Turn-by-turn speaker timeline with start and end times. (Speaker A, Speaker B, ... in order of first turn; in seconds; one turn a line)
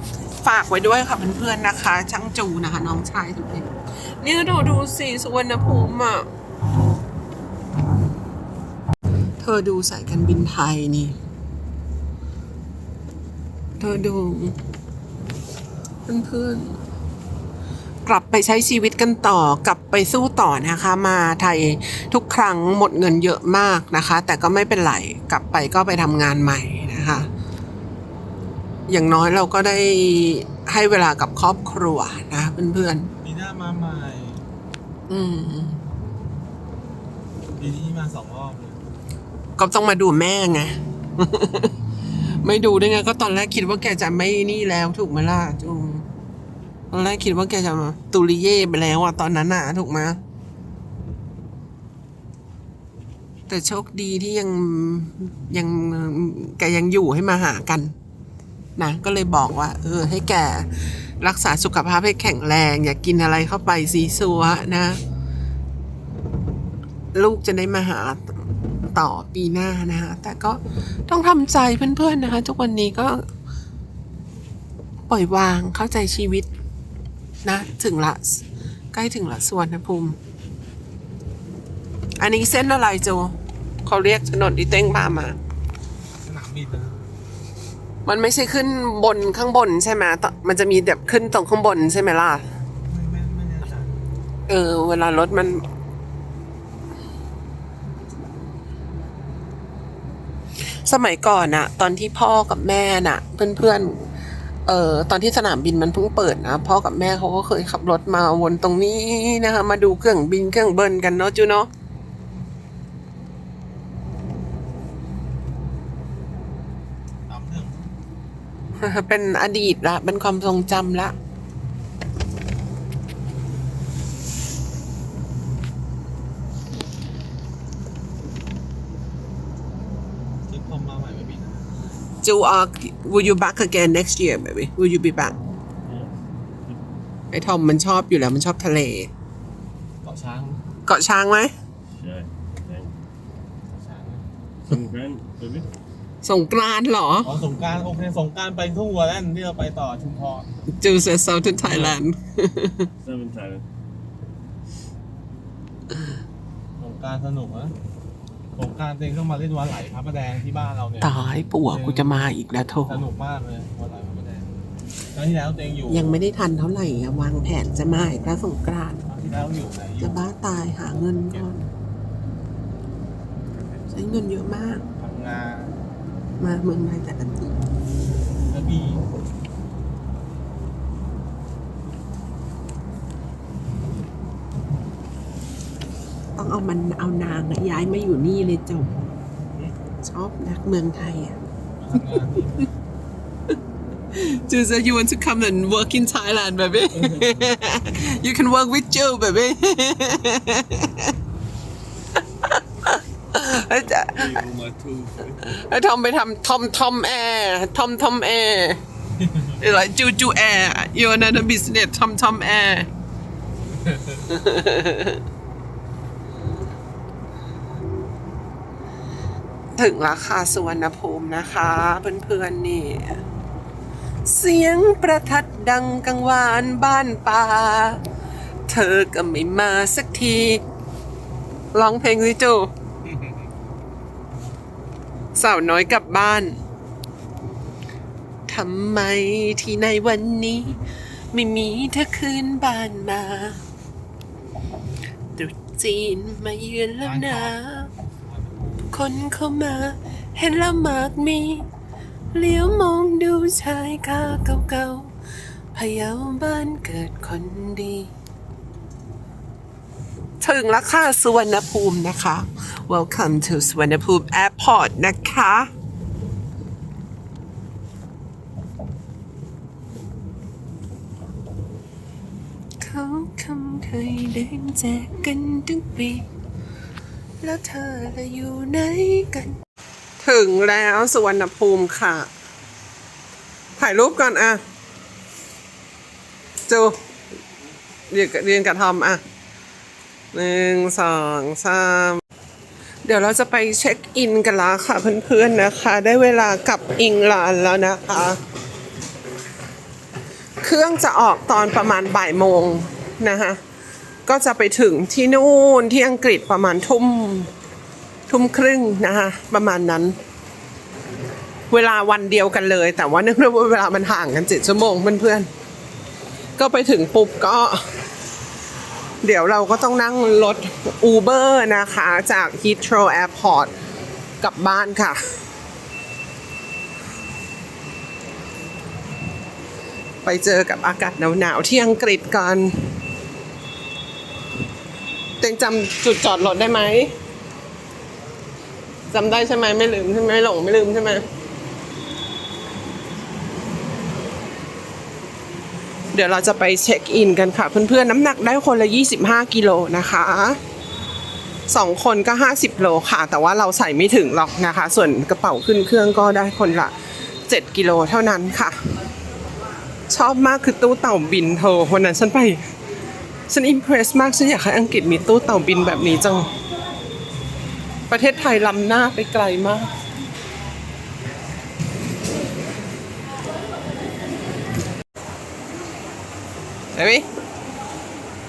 Speaker A: 0.4-6.3
Speaker A: 9.4-11.2
Speaker A: 13.8-14.6
Speaker A: 16.1-16.8
Speaker A: 18.1-27.3
Speaker A: 28.9-33.1
Speaker B: 33.2-34.4
Speaker A: 35.1-35.8
Speaker B: 37.6-38.8
Speaker A: 39.6-41.8
Speaker A: 42.4-46.1
Speaker A: 46.9-50.2
Speaker A: 53.5-57.9
Speaker A: 58.8-65.0
Speaker A: 67.1-73.2
Speaker A: 75.1-76.5
Speaker A: 77.4-78.4
Speaker A: 78.9-80.2
Speaker A: 82.2-85.4
Speaker B: 86.2-87.0
Speaker A: 88.1-92.4
Speaker B: 92.8-93.9
Speaker A: 94.5-95.6
Speaker A: 100.8-104.0
Speaker A: 104.7-111.7
Speaker B: 117.3-117.9
Speaker A: 118.8-121.1
Speaker B: 130.5-131.7
Speaker A: 132.2-135.3
Speaker C: 135.8-136.8
Speaker A: 137.3-139.1
Speaker B: 140.0-140.6
Speaker A: 140.8-141.5
Speaker C: 141.9-143.1
Speaker B: 143.7-144.2
Speaker C: 144.7-145.7
Speaker A: 146.2-147.3
Speaker B: 147.2-150.5
Speaker A: 150.8-152.9
Speaker C: 151.7-151.9
Speaker C: 153.0-153.7
Speaker B: 156.8-157.7
Speaker B: 158.6-164.5
Speaker A: 161.0-163.1
Speaker B: 165.1-166.2
Speaker A: 165.9-169.1
Speaker B: 169.1-170.3
Speaker A: 170.0-171.7
Speaker B: 171.0-171.5
Speaker A: 173.9-174.8
Speaker B: 175.0-175.7
Speaker A: 176.4-177.5
Speaker B: 178.5-179.1
Speaker A: 186.3-189.0
Speaker A: 190.0-191.4
Speaker B: 191.8-192.7
Speaker A: 194.1-201.1
Speaker C: 197.0-197.5
Speaker A: 202.4-204.4
Speaker C: 204.0-205.5
Speaker A: 205.4-208.8
Speaker B: 209.2-209.6
Speaker A: 209.6-212.9
Speaker B: 213.8-214.3
Speaker A: 214.3-215.2
Speaker A: 219.8-223.2
Speaker A: 224.2-228.0
Speaker A: 228.7-230.6
Speaker A: 231.7-232.7
Speaker B: 233.1-233.4
Speaker A: 235.3-236.6
Speaker A: 238.5-240.8
Speaker A: 241.3-243.6
Speaker A: 245.3-247.9
Speaker B: 247.0-247.6
Speaker B: 248.2-248.9
Speaker A: 248.9-251.7
Speaker A: 252.3-255.1
Speaker A: 255.7-258.1
Speaker A: 260.4-265.7
Speaker A: 272.8-276.2
Speaker A: 277.4-279.6
Speaker A: 280.2-282.3
Speaker A: 283.8-284.6
Speaker A: 286.7-287.0
Speaker A: 288.1-289.2
Speaker A: 290.3-292.2
Speaker A: 293.1-298.4
Speaker A: 300.6-303.6
Speaker A: 304.2-307.5
Speaker A: 308.3-310.2
Speaker A: 311.7-315.5
Speaker A: 316.6-317.8
Speaker A: 319.2-323.7
Speaker A: 324.4-325.2
Speaker A: 330.2-332.8
Speaker A: 335.4-337.1
Speaker A: 339.1-341.2
Speaker A: 346.1-350.6
Speaker A: 351.7-356.9
Speaker A: 357.5-358.8
Speaker A: 360.1-362.6
Speaker A: 363.5-366.5
Speaker A: 368.1-369.9
Speaker A: 376.9-377.2